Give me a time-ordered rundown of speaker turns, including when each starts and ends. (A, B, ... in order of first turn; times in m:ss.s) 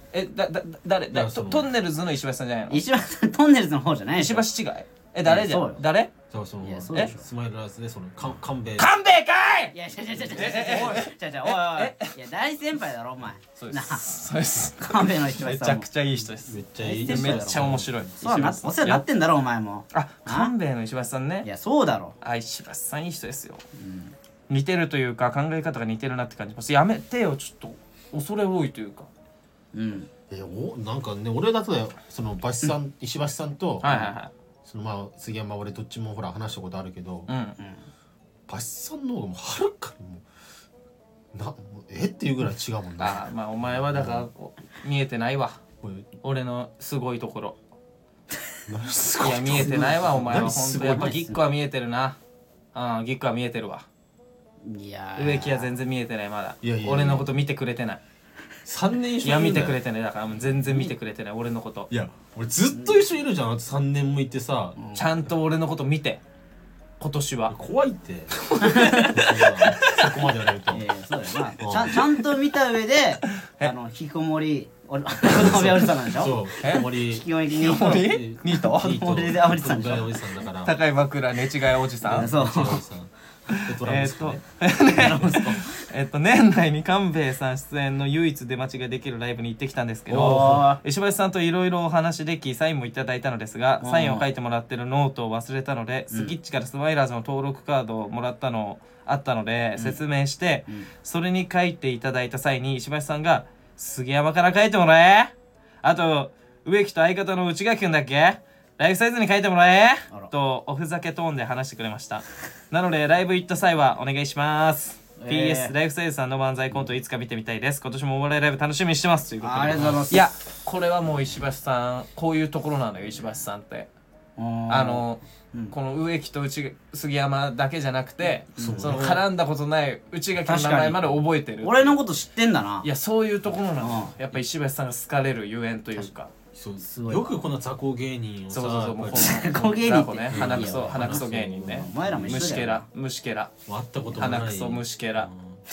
0:00.1-0:02.8 A
0:01.1-0:01.7 B
0:02.7-0:04.4 C
0:04.2-0:06.1 A
0:05.2-0:05.8 C
0:06.3-0:08.9 B
0:06.6-0:07.2 C
0:08.8-0:09.7 A
0:09.7-0:14.0 C
0:10.3-0:12.1 A
0:13.6-0:19.0 A
0:14.8-0:15.9 C
0:16.4-0:18.1 B
0:16.8-0:20.5 C
0:19.9-0:21.5 A
0:21.4-0:22.1 C
0:22.2-0:23.6 A
0:23.8-0:24.1 C
0:24.5-0:29.1 A
0:29.7-0:30.1 C
0:30.3-0:34.1 B
0:33.8-0:34.3 A
0:34.6-0:37.3 B
0:37.3-0:37.6 A
0:37.6-0:37.8 C
0:38.5-0:40.2 B
0:41.3-0:44.3 B
0:43.0-0:45.6 A
0:45.8-0:46.1 B
0:46.2-0:47.6 A
0:48.7-0:51.2 B
0:49.2-0:52.2 A
0:49.6-0:50.2 C
0:50.8-0:51.4 C
0:52.7-0:53.8 A
0:54.6-0:55.7 C
0:55.2-0:58.0 A
0:56.6-0:57.3 B
0:58.6-0:59.8 B
0:59.2-1:01.9 A
1:01.9-1:04.8 B
1:02.7-1:03.0 C
1:04.8-1:05.0 C
1:04.9-1:06.2 A
1:07.0-1:07.5 A
1:07.5-1:10.8 B
1:08.4-1:10.1 A
1:08.6-1:09.2 C
1:10.7-1:16.4 C
1:11.6-1:12.0 B
1:13.4-1:13.7 A
1:15.2-1:17.2 B
1:16.6-1:16.9 A
1:17.0-1:18.1 C
1:17.5-1:19.2 A
1:17.9-1:20.8 B
1:18.8-1:20.2 C
1:20.6-1:22.3 A
1:22.0-1:24.4 B
1:22.1-1:22.8 C
1:23.5-1:45.3 A
1:24.9-1:25.8 C
1:30.1-1:30.6 B
1:30.1-1:30.8 C
1:33.8-1:34.2 C
1:45.8-2:03.9 A
1:55.2-1:55.7 C
1:59.4-2:00.3 C
1:59.7-2:00.0 B
2:04.4-2:05.7 C
2:04.7-2:12.0 A
2:08.5-2:09.0 C
2:08.6-2:09.2 B
2:10.4-2:12.9 C
2:12.8-2:16.3 A
2:13.8-2:14.1 C
2:16.5-2:19.5 B
2:16.8-2:17.4 C
2:18.5-2:23.5 A
2:19.1-2:22.8 C
2:20.3-2:22.8 B
2:23.7-2:25.6 B
2:24.1-2:25.3 A